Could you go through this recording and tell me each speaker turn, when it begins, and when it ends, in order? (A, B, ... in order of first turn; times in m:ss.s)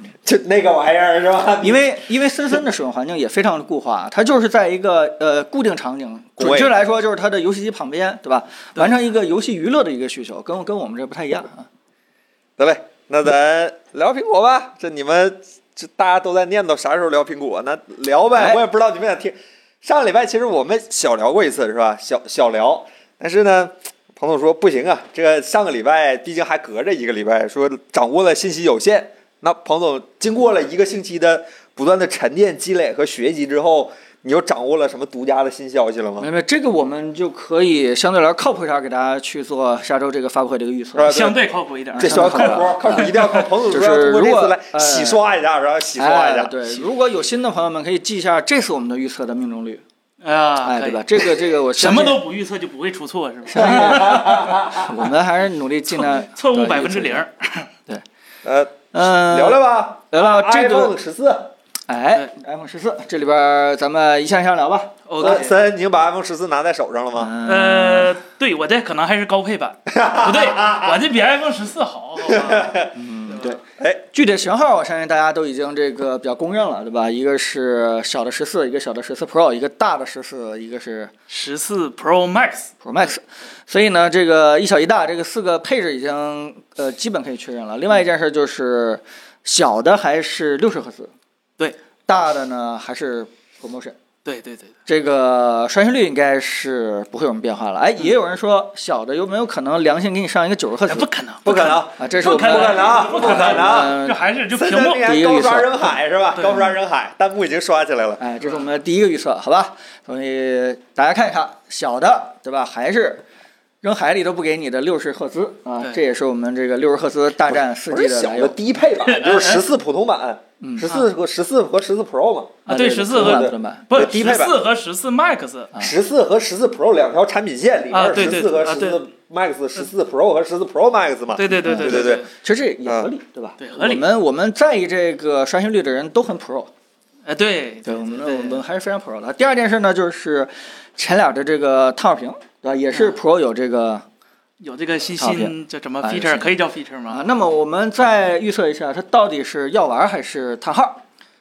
0:00.2-0:01.9 A
0:01.6-0:11.7 B
0:06.4-0:06.7 A
0:12.6-0:36.3 A
0:18.3-0:18.6 B
0:36.2-0:41.2 B
0:41.0-0:41.4 A
0:41.0-0:43.5 C
0:41.9-0:45.2 B
0:42.0-0:46.5 A
0:46.0-0:49.8 B
0:50.2-0:54.7 C
0:50.6-0:52.2 B
0:53.5-0:57.2 B
0:53.6-0:54.9 A
0:56.0-0:57.7 C
0:58.4-1:01.5 A
0:58.9-1:01.0 B
1:01.9-1:05.5 B
1:05.1-1:05.6 C
1:05.2-1:07.4 A
1:07.2-1:08.2 B
1:07.4-1:13.6 C
1:09.9-1:11.0 A
1:12.3-1:12.9 A
1:13.0-1:13.6 B
1:13.8-1:14.0 A
1:14.1-1:21.1 B
1:21.3-1:22.7 C
1:22.8-1:31.1 B
1:32.1-1:34.0 B
1:34.2-1:34.7 C
1:34.9-1:41.1 B
1:40.9-1:45.2 C
1:41.4-1:44.0 A
1:42.0-1:44.2 B
1:44.5-1:48.2 A
1:45.0-1:45.9 B
1:48.2-1:53.2 B
1:53.8-1:58.6 B
1:57.9-2:02.6 A
1:59.0-1:59.7 C
2:00.6-2:00.9 B
2:02.7-2:05.7 C
2:02.7-2:04.1 B
2:03.2-2:04.6 A
2:05.8-2:12.3 A
2:07.9-2:09.0 C
2:11.4-2:12.3 C
2:11.6-2:16.7 B
2:13.6-2:14.1 C
2:17.3-2:18.6 C
2:17.9-2:24.0 B
2:24.6-2:27.2 C
2:25.2-2:26.6 B
2:27.1-2:31.0 B